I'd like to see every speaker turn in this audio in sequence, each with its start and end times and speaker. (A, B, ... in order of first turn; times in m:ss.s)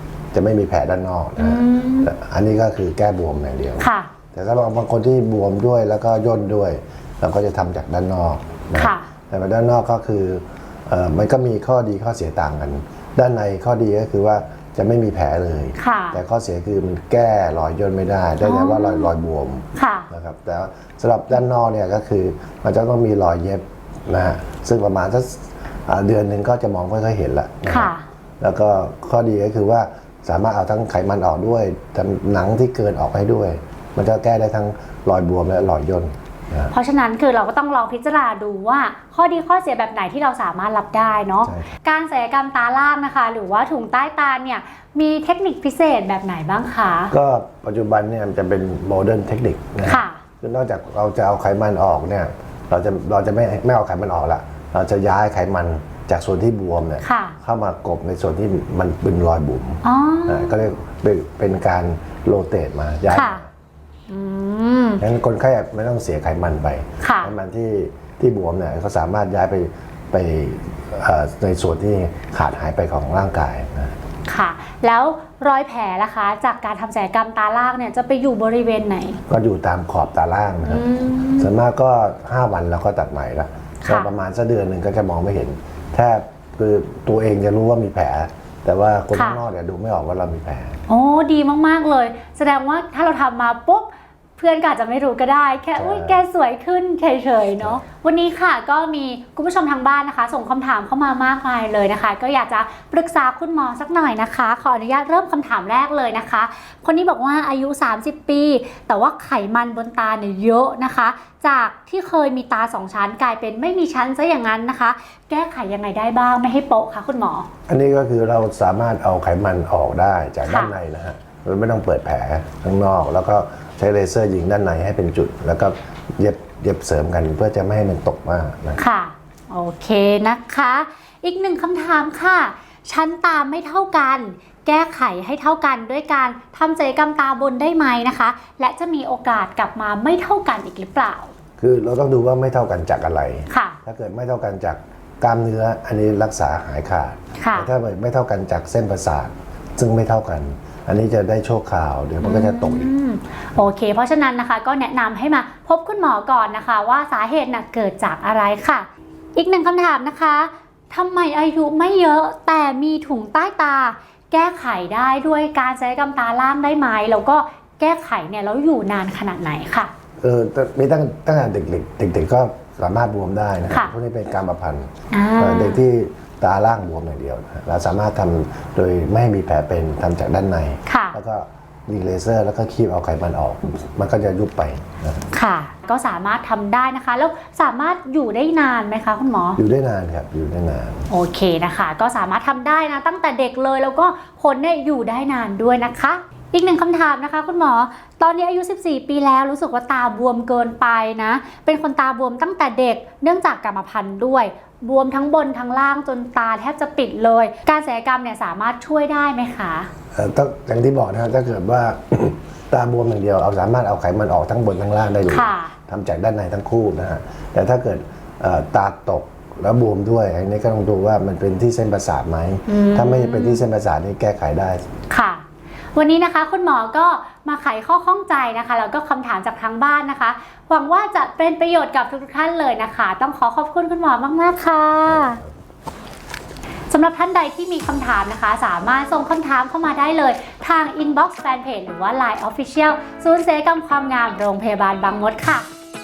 0:00.3-0:36.7 A
0:01.4-0:02.1 B
0:03.8-0:04.1 B
0:08.8-0:09.1 B
0:15.8-0:16.2 B
0:18.4-0:19.1 B
0:19.8-0:20.1 B
0:27.7-0:28.0 B
0:36.7-0:47.1 B
0:41.4-0:41.7 A
0:47.1-1:03.5 A
0:49.8-0:50.2 B
0:57.0-0:57.4 B
0:59.8-1:00.6 B
1:03.1-1:03.4 B
1:04.1-1:05.0 B
1:05.0-1:14.0 A
1:07.0-1:07.3 B
1:14.3-1:19.2 B
1:19.3-1:30.8 A
1:20.6-1:21.5 B
1:23.8-1:24.1 B
1:29.1-1:29.4 B
1:30.9-1:57.5 B
1:35.8-1:36.2 A
1:57.7-2:08.8 A
2:00.4-2:00.7 B
2:08.8-2:21.3 B
2:21.6-2:32.9 A
2:23.5-2:23.8 B
2:27.4-2:27.7 B
2:32.2-2:49.9 B
2:50.2-3:05.2 A
2:55.1-2:55.8 B
3:00.9-3:01.2 B
3:05.3-3:09.6 B
3:09.6-3:11.0 A
3:11.1-3:29.9 B
3:30.1-3:44.8 A
3:35.3-3:35.7 B
3:42.7-3:43.6 B
3:45.1-3:45.4 B
3:46.0-3:55.4 B
3:55.1-3:55.5 A
3:56.9-4:05.7 B